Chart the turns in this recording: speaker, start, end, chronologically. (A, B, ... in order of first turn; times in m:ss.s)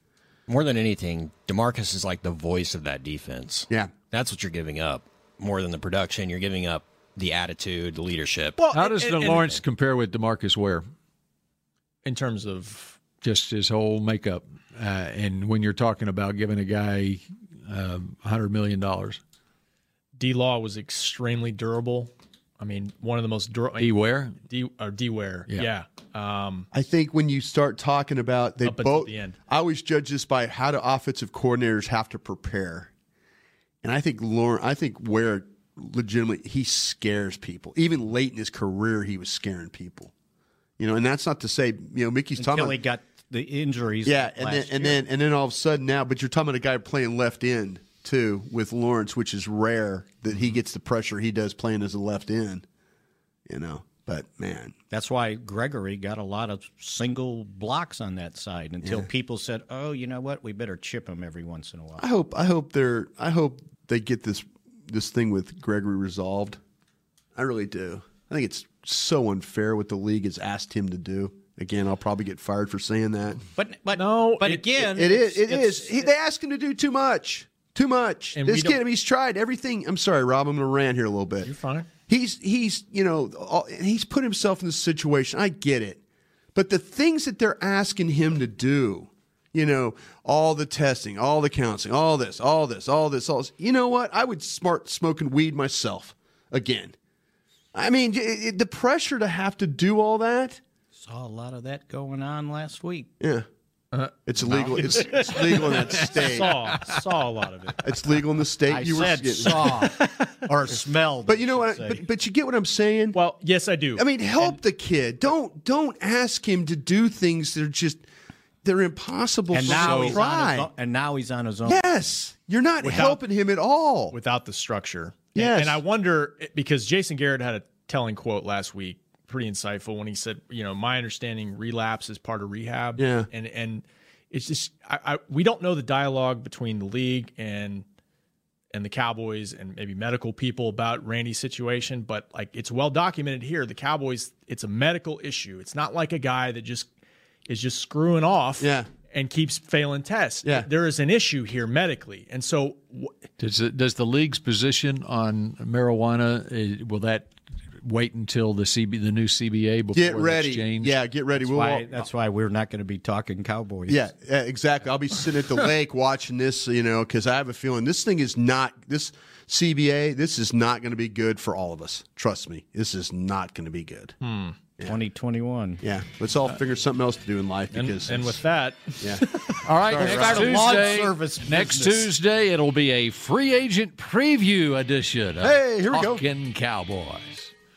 0:00.5-0:08.6 A
0:08.6-0:09.5 B
0:08.7-0:10.8 C
0:12.0-0:13.0 B
0:13.2-0:19.2 C
0:20.2-0:26.7 B
0:23.8-0:24.4 C
0:26.7-0:32.9 D
0:28.6-0:29.4 B
0:33.8-0:40.1 D
0:40.8-0:42.8 D
0:42.4-0:45.0 E
0:44.0-0:52.6 D
0:53.5-0:54.7 D
0:54.9-1:02.0 E
1:02.0-1:06.6 D
1:07.4-1:13.4 D
1:13.6-1:16.1 E
1:13.9-1:14.7 B
1:14.8-1:21.5 D
1:18.3-1:18.8 B
1:21.4-1:21.9 B
1:22.1-1:26.0 D
1:26.5-1:36.9 D
1:37.7-1:40.6 D
1:40.9-1:43.1 E
1:43.2-1:43.4 D
1:44.2-1:46.7 D
1:44.5-1:44.9 E
1:44.7-1:47.8 B
1:47.8-1:49.9 D
1:48.7-1:52.0 E
1:51.3-1:53.2 D
1:53.1-1:54.6 B
1:54.0-1:58.0 D
1:58.6-2:00.7 D
1:59.5-2:02.1 E
1:59.6-2:00.2 C
2:01.6-2:04.1 D
2:02.8-2:03.2 B
2:04.1-2:17.8 B
2:05.3-2:05.8 D
2:13.0-2:13.3 D
2:18.7-2:26.9 B
2:27.5-2:33.1 B
2:28.6-2:28.9 D
2:33.4-2:41.0 C
2:39.9-2:42.0 D
2:41.4-2:44.1 E
2:43.9-2:54.1 D
2:54.2-2:54.6 B
2:54.8-2:55.8 E
2:55.8-2:58.4 D
2:57.7-2:59.6 B
2:59.0-2:59.2 D
2:59.6-3:07.5 C
2:59.8-3:00.7 D
2:59.9-3:02.1 E
3:05.4-3:06.2 D